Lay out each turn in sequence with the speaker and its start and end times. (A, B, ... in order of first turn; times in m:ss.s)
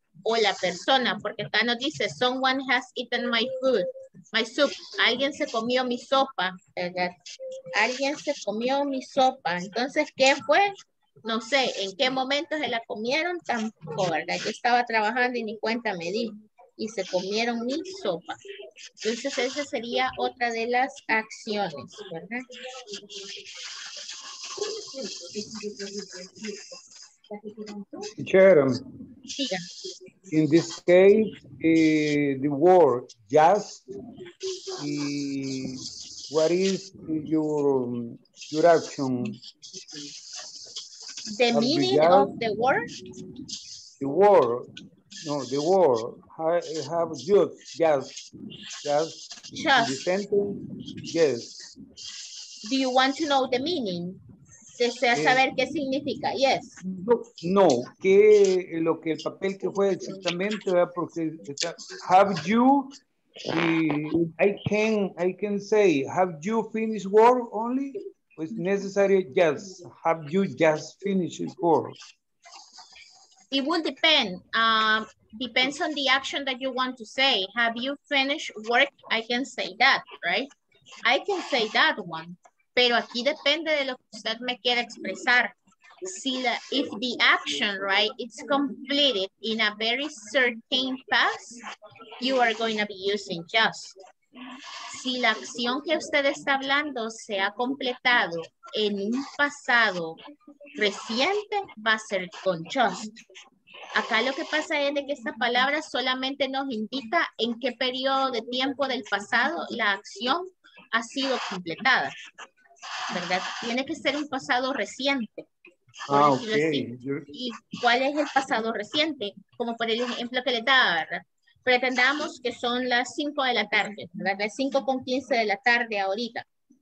0:00.2-0:07.1 A
0:07.7-0:18.4 A
0:19.0-0:22.5 A
0:28.2-0:28.8 B
0:29.3-0:29.6 A
0:30.3-0:33.9 B
0:34.8-0:39.4 B
0:41.3-0:42.9 A
0:41.5-0:42.3 B
0:44.0-0:44.7 B
0:45.2-0:48.2 B
0:48.8-0:51.6 B
0:49.5-0:50.0 A
0:52.6-0:54.2 A
0:54.8-0:56.8 A
0:55.1-0:55.4 B
0:56.8-1:03.0 B
1:03.5-1:12.0 B
1:13.5-1:20.5 A
1:21.0-1:31.6 A
1:32.2-1:34.0 A
1:34.9-1:40.2 A
1:40.8-1:43.1 A
1:43.9-1:52.2 A
1:53.1-1:55.5 A
1:56.1-1:57.3 B
1:56.1-2:06.4 A